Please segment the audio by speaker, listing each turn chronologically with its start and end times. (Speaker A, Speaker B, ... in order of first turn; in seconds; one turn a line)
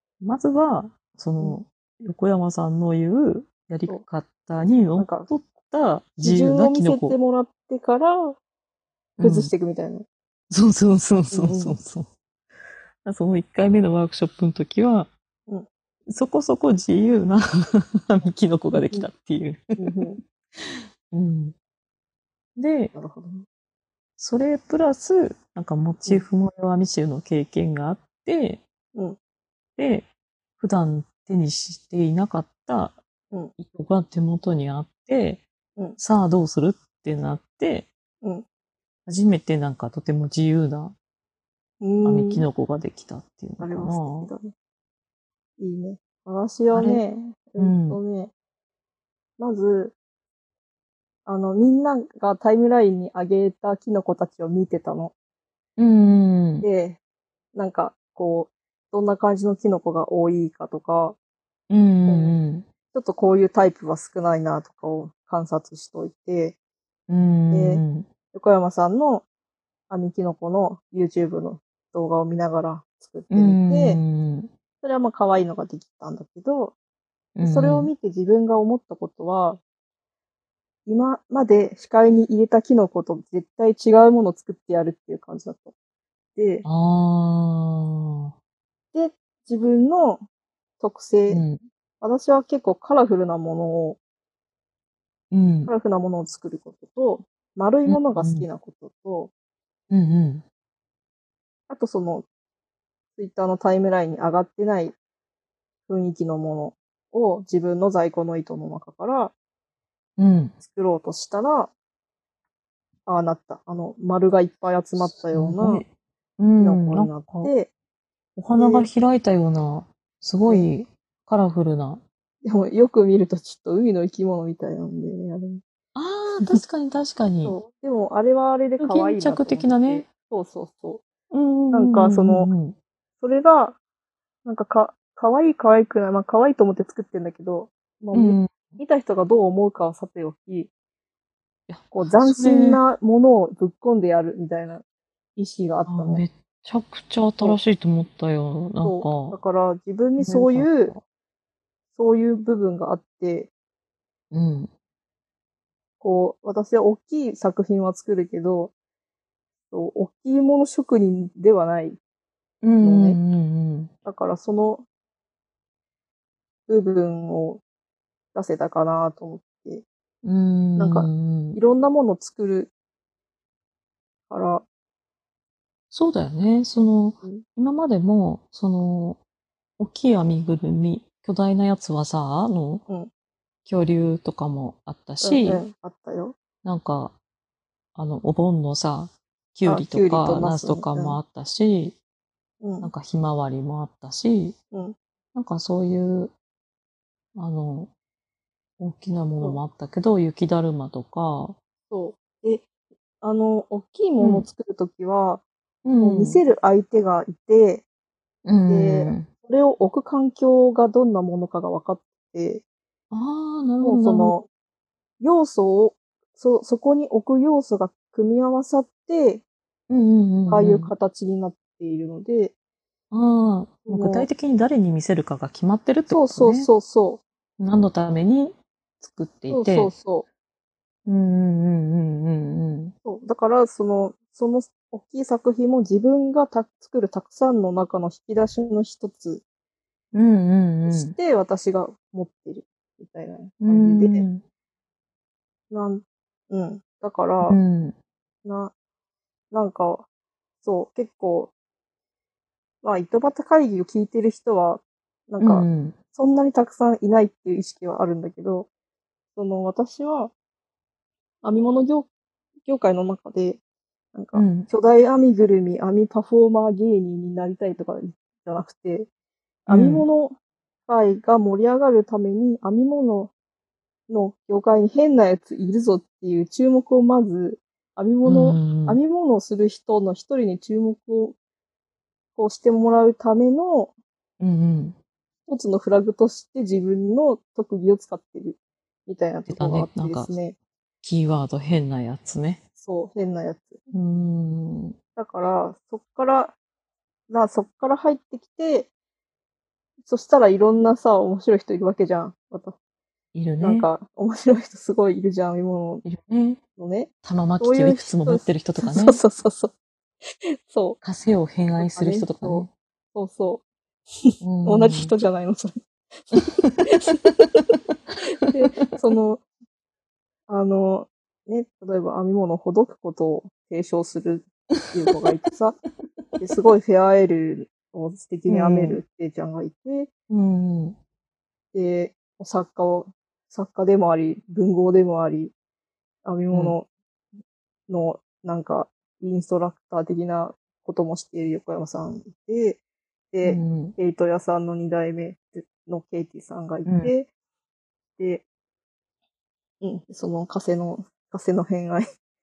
Speaker A: 0.2-7.2
Speaker B: 5.0-5.3
Speaker B: 6.2-8.4
Speaker A: 9.2-9.5
Speaker B: 9.2-10.1
Speaker A: 10.5-12.1
Speaker B: 11.3-11.8
Speaker A: 13.0-15.1
Speaker A: 16.1-21.6
Speaker B: 18.8-19.1
Speaker B: 19.8-20.2
Speaker A: 22.6-22.9
Speaker B: 22.9-23.4
Speaker A: 24.2-28.6
Speaker A: 29.8-30.1
Speaker A: 30.6-33.0
Speaker A: 33.6-35.4
Speaker A: 36.0-37.9
Speaker A: 39.1-40.9
Speaker B: 41.8-42.5
Speaker A: 42.0-44.3
Speaker B: 43.6-44.5
Speaker B: 45.6-48.3
Speaker A: 46.7-47.0
Speaker A: 47.6-48.0
Speaker B: 49.4-50.0
Speaker B: 51.3-55.1
Speaker A: 55.8-56.7
Speaker B: 56.6-57.0
Speaker B: 57.5-61.2
Speaker A: 61.7-62.7
Speaker B: 62.0-62.4
Speaker B: 62.9-66.6
Speaker A: 67.1-68.1
Speaker B: 67.5-67.8
Speaker B: 68.3-69.2
Speaker B: 69.9-74.0
Speaker A: 73.3-74.5
Speaker B: 74.8-76.8
Speaker A: 77.4-77.9
Speaker B: 77.4-79.6
Speaker B: 80.9-85.7
Speaker B: 86.4-86.7
Speaker A: 86.6-88.3
Speaker B: 88.9-90.2
Speaker B: 90.8-91.4
Speaker A: 91.3-91.6
Speaker B: 92.0-94.0
Speaker A: 95.3-95.7
Speaker B: 95.7-99.3
Speaker A: 97.9-98.5
Speaker A: 99.9-100.4
Speaker B: 101.7-102.3
Speaker B: 103.2-105.0
Speaker B: 105.9-109.3
Speaker A: 110.2-110.5
Speaker B: 110.6-111.7
Speaker B: 113.1-115.8
Speaker A: 115.0-117.5
Speaker B: 116.6-117.7
Speaker A: 118.4-122.0
Speaker B: 118.6-118.9
Speaker B: 122.4-125.6
Speaker A: 126.0-127.6
Speaker B: 127.4-131.0
Speaker A: 128.8-130.1
Speaker A: 131.3-132.8
Speaker B: 131.7-132.5
Speaker B: 133.2-133.8
Speaker B: 134.4-140.7
Speaker A: 138.1-138.6
Speaker A: 141.7-142.8
Speaker B: 141.9-144.8
Speaker B: 145.4-146.2
Speaker A: 145.9-149.4
Speaker B: 148.8-150.9
Speaker A: 150.2-151.0
Speaker B: 151.9-153.5
Speaker A: 154.3-154.7
Speaker B: 156.0-158.7
Speaker B: 159.7-162.0
Speaker A: 162.6-163.9
Speaker B: 162.8-163.2
Speaker B: 164.1-164.8
Speaker B: 166.7-167.6
Speaker B: 168.3-169.8
Speaker A: 170.2-171.6
Speaker B: 170.8-172.7
Speaker B: 174.3-174.7
Speaker A: 175.9-179.2
Speaker A: 179.8-182.8
Speaker A: 183.7-185.6
Speaker B: 185.2-186.3
Speaker A: 186.6-187.2
Speaker A: 187.9-192.0
Speaker B: 189.7-191.2
Speaker B: 192.6-192.9
Speaker A: 192.8-194.6
Speaker A: 195.3-196.3
Speaker A: 197.3-197.9
Speaker A: 198.8-201.6
Speaker B: 201.9-202.7
Speaker B: 203.2-205.4
Speaker A: 204.2-204.5
Speaker A: 205.8-206.4
Speaker B: 206.0-207.8
Speaker A: 208.4-209.3
Speaker B: 208.7-212.6
Speaker A: 213.1-214.3
Speaker B: 213.8-214.5
Speaker B: 215.2-219.4
Speaker A: 219.9-220.9
Speaker B: 220.5-222.5
Speaker A: 223.1-226.7
Speaker B: 223.9-224.3
Speaker B: 226.1-227.2
Speaker A: 227.6-229.9
Speaker B: 229.5-230.3
Speaker A: 231.1-232.9
Speaker B: 233.0-239.4
Speaker A: 240.1-241.2
Speaker B: 240.9-244.2
Speaker A: 243.6-244.4
Speaker B: 245.7-247.6
Speaker A: 247.4-247.9
Speaker B: 248.4-248.7
Speaker B: 249.5-250.1
Speaker B: 250.6-251.5
Speaker B: 252.8-258.7
Speaker A: 255.4-256.0
Speaker B: 259.4-260.3
Speaker B: 261.4-262.1
Speaker B: 262.6-263.6
Speaker B: 264.1-269.1
Speaker A: 264.3-264.7
Speaker B: 269.7-270.4
Speaker A: 269.7-270.1
Speaker B: 270.9-273.3
Speaker B: 274.1-281.4
Speaker A: 278.2-279.0
Speaker B: 282.4-283.9
Speaker A: 284.4-285.0
Speaker B: 285.5-290.6
Speaker A: 289.5-290.3
Speaker A: 291.0-292.6
Speaker B: 292.8-293.8
Speaker A: 293.9-295.0
Speaker B: 295.2-296.5
Speaker B: 297.3-298.9
Speaker B: 300.1-302.8
Speaker A: 303.3-303.9
Speaker B: 303.6-306.1
Speaker A: 306.1-306.6
Speaker B: 306.8-309.7
Speaker A: 307.2-309.2
Speaker B: 310.7-311.0
Speaker A: 311.0-312.7
Speaker B: 311.8-317.6
Speaker A: 314.4-315.1
Speaker A: 316.3-316.7
Speaker A: 317.2-318.1
Speaker B: 318.3-319.4
Speaker B: 320.5-325.8
Speaker B: 326.4-330.1
Speaker A: 328.5-329.0
Speaker A: 330.3-331.0
Speaker B: 331.7-335.5
Speaker B: 336.2-336.9
Speaker B: 337.9-342.8
Speaker B: 343.3-347.3
Speaker A: 343.4-344.0
Speaker A: 346.9-347.1
Speaker B: 348.2-348.4
Speaker B: 349.8-352.1